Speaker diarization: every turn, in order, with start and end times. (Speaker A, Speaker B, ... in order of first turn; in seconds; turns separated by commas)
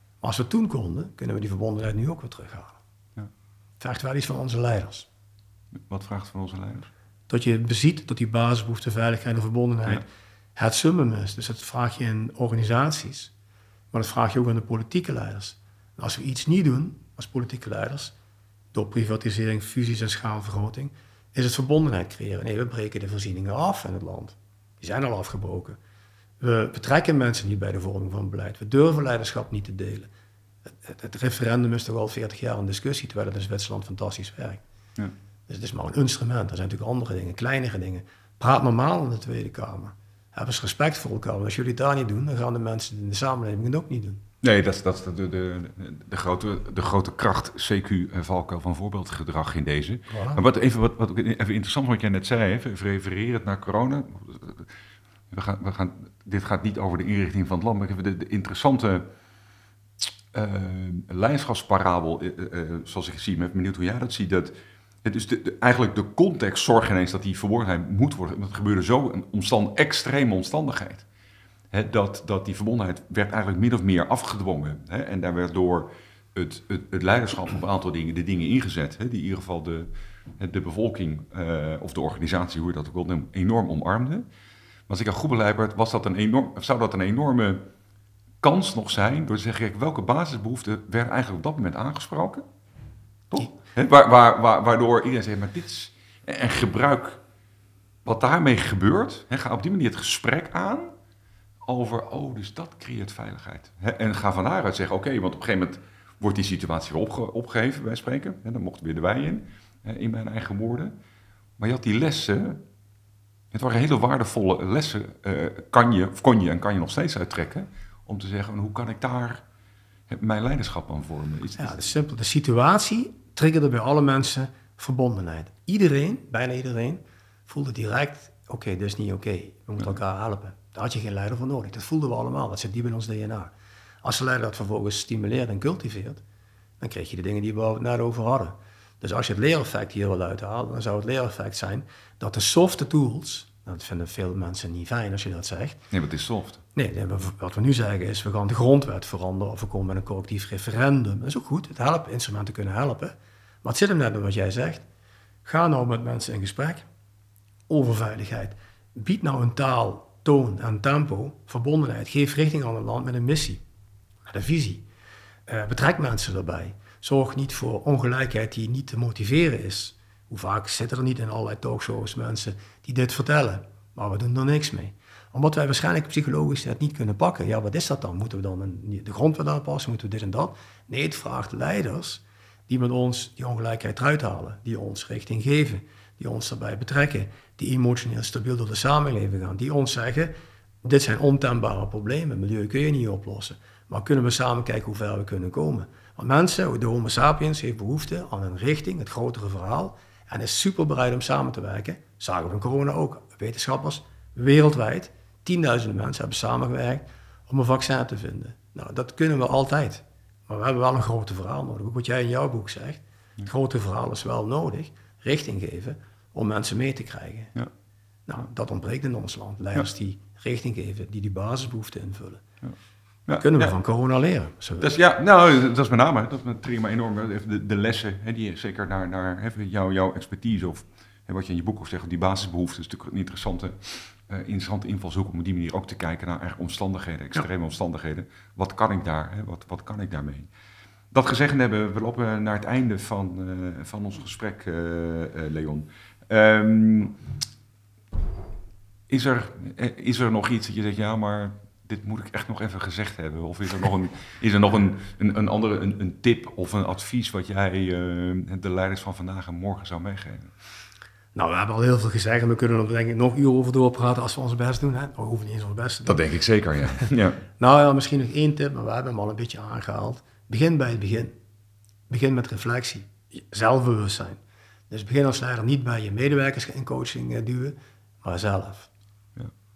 Speaker A: 0.2-2.8, Speaker A: 3.8-5.1, Speaker B: 5.9-6.9, Speaker A: 7.3-13.3, Speaker A: 13.9-18.1, Speaker A: 18.7-25.8, Speaker A: 26.4-30.1, Speaker A: 30.7-34.6, Speaker A: 35.5-44.2, Speaker B: 44.4-54.7, Speaker A: 50.1-50.4, Speaker B: 55.3-59.1, Speaker B: 60.3-71.0, Speaker B: 71.7-84.2, Speaker B: 84.9-87.7, Speaker B: 88.4-92.4, Speaker B: 93.3-97.2, Speaker B: 98.0-100.9, Speaker B: 101.7-111.0, Speaker B: 111.6-112.6, Speaker B: 113.5-119.4, Speaker B: 120.1-121.8, Speaker A: 121.6-133.5, Speaker A: 134.0-136.2, Speaker A: 136.8-145.8, Speaker B: 145.9-146.6, Speaker A: 146.8-154.8, Speaker A: 155.4-156.8, Speaker A: 157.7-163.6, Speaker A: 164.3-164.9, Speaker A: 165.5-217.5, Speaker A: 218.3-222.4, Speaker B: 223.3-223.7, Speaker A: 223.4-224.9, Speaker B: 224.8-240.5, Speaker B: 241.1-247.2, Speaker B: 249.1-260.5, Speaker A: 261.4-266.2, Speaker B: 266.1-267.4, Speaker A: 266.9-271.3, Speaker A: 272.1-278.9